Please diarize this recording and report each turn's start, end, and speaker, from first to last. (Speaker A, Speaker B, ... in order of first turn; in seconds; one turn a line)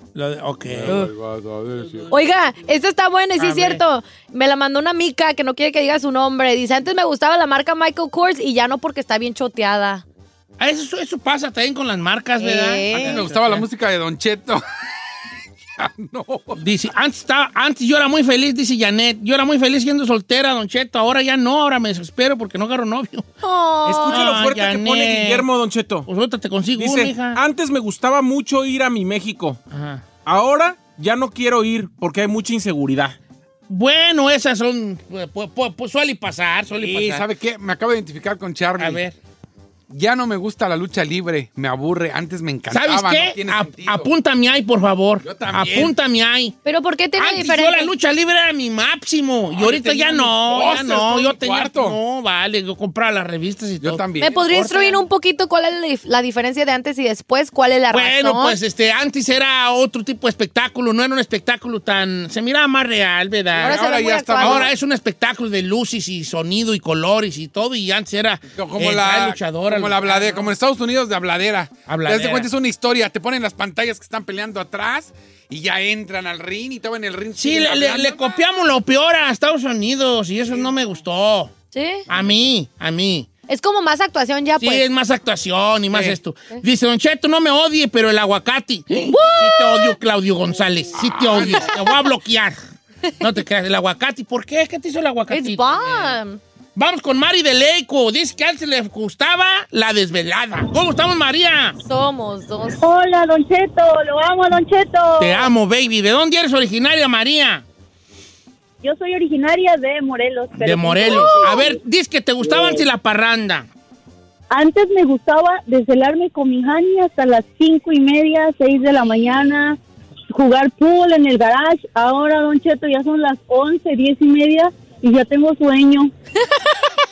Speaker A: 0.1-1.1
Speaker B: 0.7-2.1
Speaker C: 2.1-10.0
Speaker A: 3.4-3.8
Speaker A: 10.6-13.6
Speaker C: 12.4-13.2
Speaker B: 12.9-14.6
Speaker B: 15.8-16.6
Speaker A: 16.6-23.3
Speaker C: 23.4-24.3
Speaker D: 23.8-26.1
Speaker A: 24.1-25.5
Speaker A: 26.0-27.4
Speaker D: 26.8-29.6
Speaker A: 29.7-30.1
Speaker D: 30.2-33.2
Speaker A: 33.7-37.2
Speaker B: 36.7-39.0
Speaker A: 38.8-39.1
Speaker B: 39.9-44.1
Speaker A: 42.7-46.5
Speaker B: 45.2-45.9
Speaker C: 46.6-47.9
Speaker A: 47.2-55.0
Speaker B: 49.5-52.0
Speaker B: 53.8-54.4
Speaker C: 54.2-58.6
Speaker A: 57.9-63.8
Speaker B: 63.5-64.7
Speaker C: 63.6-64.7
Speaker A: 64.3-70.5
Speaker B: 68.5-78.4
Speaker A: 71.9-72.5
Speaker A: 77.3-81.5
Speaker C: 81.7-82.1
Speaker A: 82.1-83.3
Speaker C: 83.5-84.8
Speaker A: 84.6-92.6
Speaker B: 85.9-86.2
Speaker C: 89.1-90.0
Speaker B: 90.9-91.8
Speaker C: 91.5-91.9
Speaker A: 93.2-96.2
Speaker C: 95.3-96.4
Speaker A: 96.7-101.8
Speaker C: 101.8-102.8
Speaker E: 102.8-105.5
Speaker A: 105.2-107.6
Speaker E: 108.8-111.7
Speaker A: 110.5-113.7
Speaker C: 111.0-111.8
Speaker E: 114.5-119.8
Speaker E: 120.3-126.1